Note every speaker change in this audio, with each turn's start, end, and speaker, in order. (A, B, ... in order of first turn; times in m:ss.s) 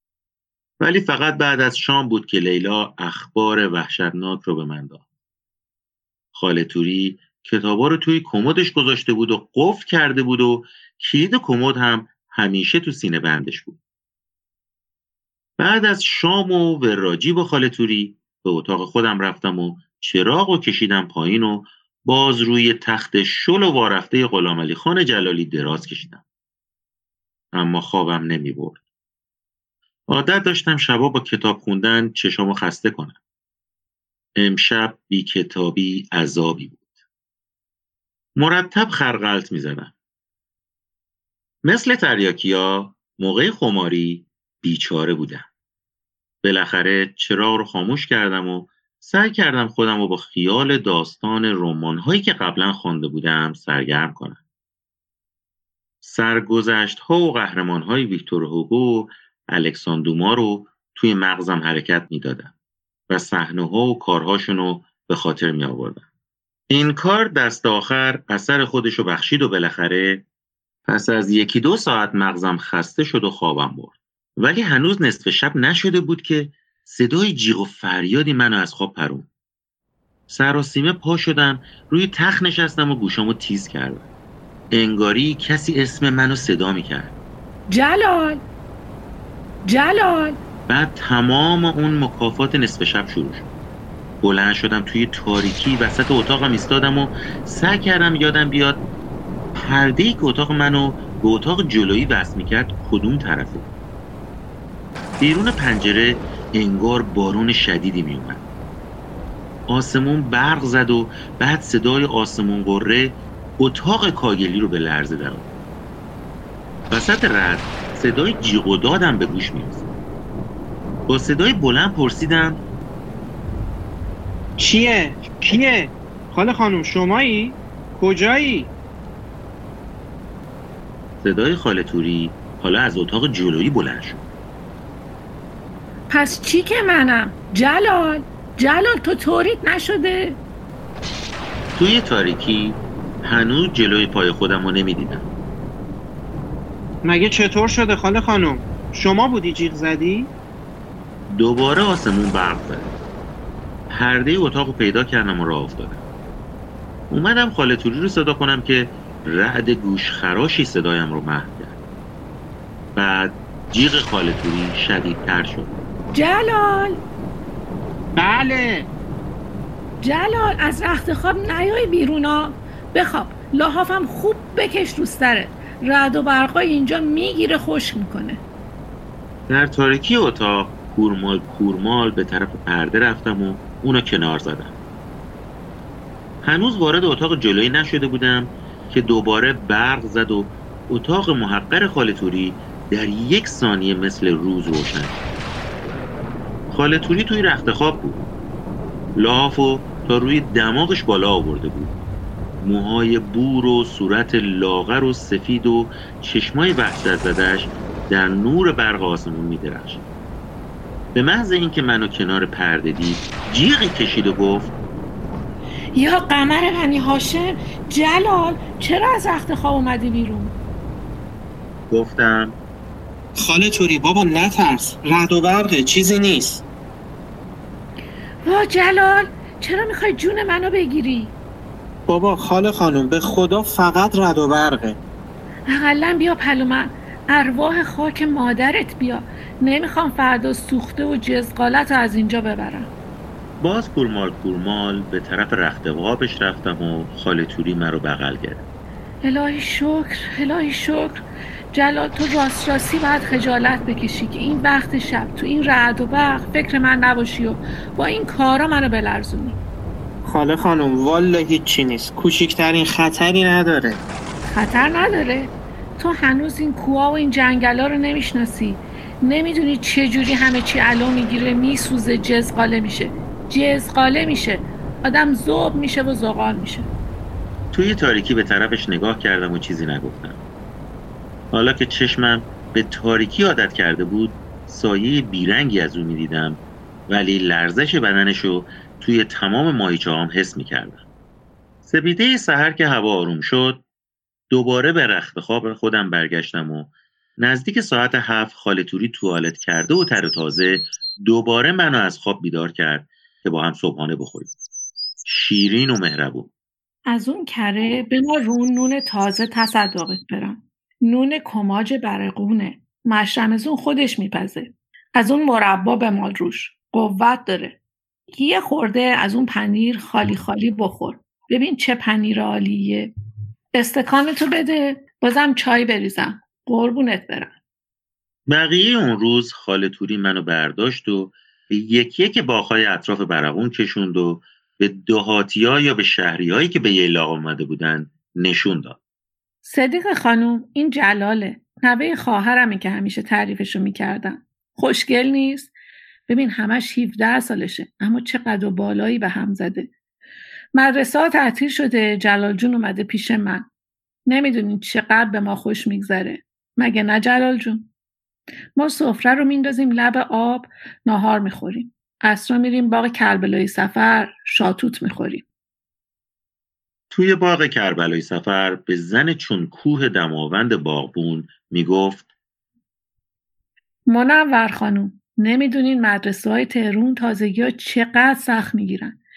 0:00.8-0:05.0 A
0:06.3-0:13.8 A
0:15.6-0:26.2 A
0:27.5-0:28.8 A
0:30.1-0:33.2 A
0:34.4-0:36.8 A
0:38.4-0:39.9 A
0:41.6-0:45.5 A
0:46.4-0:54.4 A
0:56.0-1:02.5 A
1:03.1-1:06.0 A
1:06.7-1:10.2 A
1:10.9-1:19.3 A
1:20.3-1:24.0 A
1:24.7-1:27.2 A
1:27.7-1:28.4 B
1:29.7-1:30.4 B
1:30.7-1:33.5 A
1:34.2-1:38.8 A
1:39.6-1:43.7 A
1:45.2-1:48.4 A
1:49.7-1:55.5 A
1:56.9-1:59.9 A
2:01.1-2:02.6 A
2:04.6-2:08.7 C
2:11.2-2:14.2 A
2:16.1-2:20.4 B
2:21.8-2:25.3 A
2:27.0-2:30.3 C
2:31.3-2:32.9 A
2:33.9-2:36.0 A
2:37.1-2:41.8 A
2:43.0-2:45.7 A
2:46.1-2:47.0 B
2:48.2-2:48.9 C
2:50.0-2:58.4 B
2:59.5-3:04.7 A
3:06.4-3:15.3 A
3:16.7-3:18.2 A
3:19.2-3:22.0 A
3:22.6-3:30.0 A
3:31.1-3:34.7 A
3:36.0-3:40.5 B
3:41.9-3:42.6 A
3:43.4-3:46.6 C
3:48.4-3:51.3 B
3:52.1-3:55.0 C
3:55.7-4:02.9 B
4:03.6-4:08.6 A
4:09.2-4:19.6 B
4:20.2-4:24.0 C
4:24.5-4:36.9 B
4:37.7-4:40.4 A
4:41.5-4:51.0 A
4:51.8-4:53.8 A
4:54.5-5:04.5 A
5:05.2-5:06.5 A
5:07.1-5:17.8 B
5:18.3-5:23.1 B
5:23.8-5:27.6 B
5:28.5-5:39.0 A
5:39.6-5:45.7 B
5:46.3-5:49.9 B
5:50.8-5:53.7 B
5:54.3-5:57.9 B
5:58.8-6:05.5 B
6:07.1-6:12.3 A
6:14.1-6:19.2 B